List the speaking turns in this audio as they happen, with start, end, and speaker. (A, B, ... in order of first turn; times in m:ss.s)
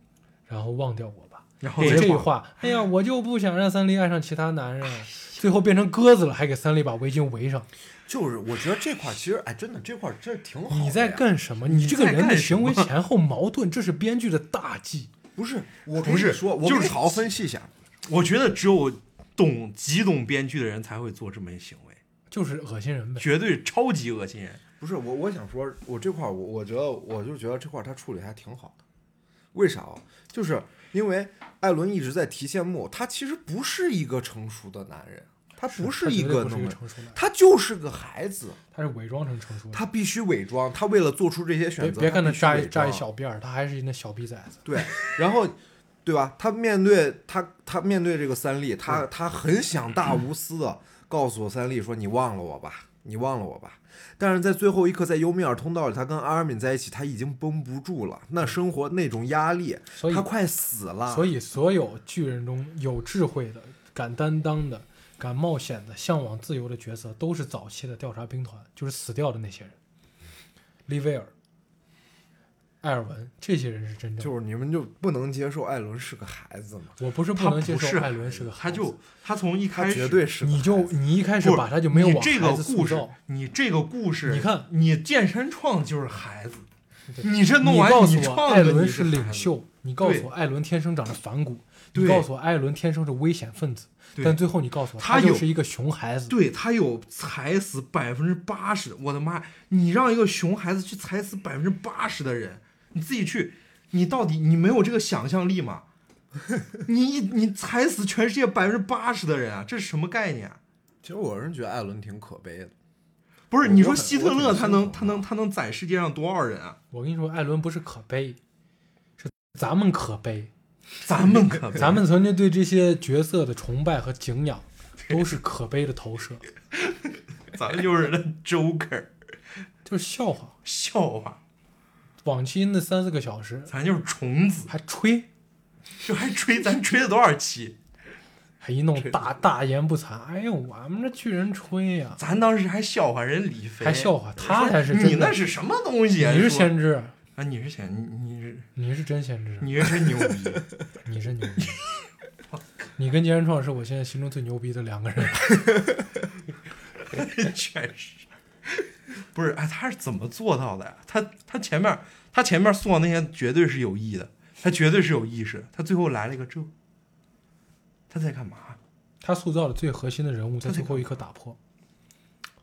0:00.5-0:07.7 A
0:01.6-0:02.3 B
0:05.1-0:05.4 B
0:08.1-0:11.2 C
0:10.7-0:15.1 A
0:11.6-0:12.9 B
0:15.4-0:17.7 C
0:16.0-0:17.3 B
0:18.0-0:22.0 B
0:22.3-0:23.3 A
0:23.2-0:24.6 B
0:24.8-0:28.8 C
0:29.5-0:38.6 C
0:35.7-0:37.2 A
0:38.7-0:39.8 A
0:39.7-0:43.0 C
0:41.8-0:44.6 A
0:44.6-1:01.3 C
1:00.0-1:00.3 A
1:01.1-1:09.8 A
1:10.9-1:11.3 A
1:12.8-1:14.3 A
1:14.2-1:17.0 C
1:17.0-1:18.9 A
1:17.4-1:20.2 B
1:19.7-1:21.0 C
1:20.4-1:23.2 A
1:21.4-1:26.7 B
1:24.3-1:24.7 A
1:27.1-1:36.3 A
1:27.2-1:30.3 B
1:31.9-1:32.3 B
1:35.0-1:35.5 B
1:36.3-1:45.8 B
1:46.8-1:50.6 B
1:51.0-1:52.7 C
1:53.5-1:56.8 B
1:53.6-1:55.2 C
1:56.9-1:58.4 A
1:59.2-2:00.5 A
2:01.0-2:02.0 B
2:01.7-2:06.4 A
2:05.0-2:05.3 B
2:06.7-2:09.1 B
2:09.8-2:10.6 A
2:10.6-2:11.4 B
2:12.2-2:13.7 A
2:13.7-2:14.7 B
2:14.7-2:15.3 A
2:16.0-2:17.8 B
2:18.6-2:22.2 A
2:19.0-2:19.3 B
2:22.2-2:26.8 B
2:23.8-2:25.4 A
2:26.2-2:27.2 A
2:27.4-2:28.7 B
2:28.8-2:29.9 A
2:29.6-2:30.7 B
2:31.0-2:31.8 A
2:33.0-2:35.8 A
2:37.0-2:46.7 B
2:48.1-2:48.8 B
2:49.2-2:51.6 A
2:50.6-2:51.1 B